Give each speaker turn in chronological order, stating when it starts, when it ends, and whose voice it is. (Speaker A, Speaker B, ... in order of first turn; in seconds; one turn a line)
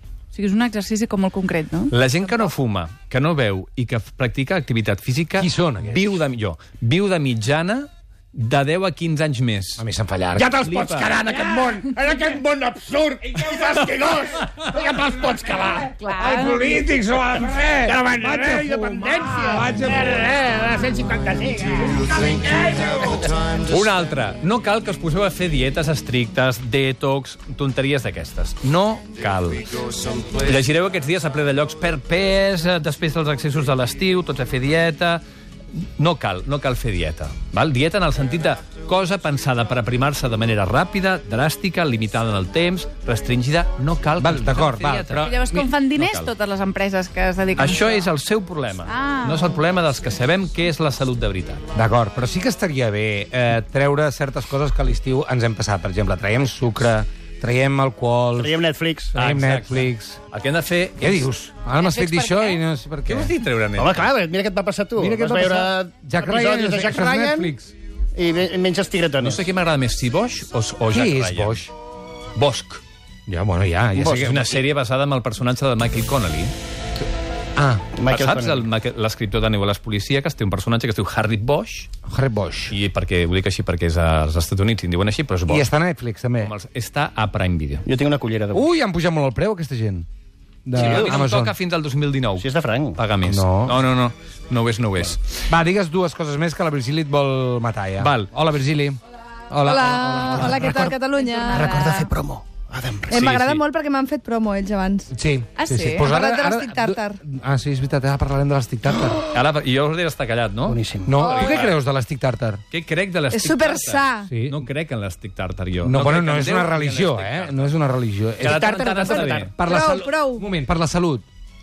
Speaker A: 0.3-1.9
Speaker B: 1.9-9.8
Speaker C: 5.4-6.0
Speaker C: 9.8-11.9
Speaker D: 10.3-15.9
Speaker B: 10.6-11.1
Speaker A: 16.0-16.6
Speaker C: 16.1-20.6
Speaker D: 17.8-23.3
Speaker B: 23.6-29.7
Speaker B: 30.3-35.2
Speaker B: 35.8-46.3
Speaker C: 44.2-45.3
Speaker A: 45.2-48.0
Speaker B: 47.6-51.6
Speaker A: 48.9-49.5
Speaker C: 51.7-58.6
Speaker D: 58.4-59.2
Speaker C: 59.1-60.2
Speaker B: 59.1-61.3
Speaker C: 61.0-63.3
Speaker A: 61.8-62.6
Speaker B: 63.0-64.1
Speaker D: 63.8-67.5
Speaker C: 65.0-67.7
Speaker D: 68.2-69.4
Speaker B: 69.2-71.7
Speaker C: 70.9-71.6
Speaker B: 72.3-72.8
Speaker C: 73.3-74.4
Speaker B: 74.0-76.5
Speaker D: 74.0-74.6
Speaker C: 77.6-77.8
Speaker D: 77.9-78.7
Speaker B: 78.1-81.9
Speaker C: 82.1-82.8
Speaker B: 82.7-85.7
Speaker C: 85.5-86.5
Speaker B: 86.4-87.8
Speaker D: 87.8-88.7
Speaker C: 88.5-90.0
Speaker C: 90.6-91.5
Speaker B: 90.7-95.3
Speaker D: 90.7-91.2
Speaker D: 92.4-93.0
Speaker C: 93.2-93.8
Speaker C: 95.5-99.0
Speaker B: 98.0-98.3
Speaker C: 99.5-100.8
Speaker E: 99.6-102.0
Speaker D: 100.3-100.9
Speaker A: 101.0-102.1
Speaker D: 101.5-103.3
Speaker E: 103.1-105.1
Speaker B: 103.1-103.6
Speaker C: 105.1-109.3
Speaker A: 105.6-106.1
Speaker E: 106.1-107.2
Speaker B: 109.3-111.8
Speaker D: 110.7-111.2
Speaker C: 111.0-112.6
Speaker E: 111.2-111.5
Speaker B: 112.7-117.8
Speaker E: 113.3-114.3
Speaker C: 114.3-114.6
Speaker C: 115.8-121.2
Speaker B: 118.4-119.5
Speaker E: 119.0-120.4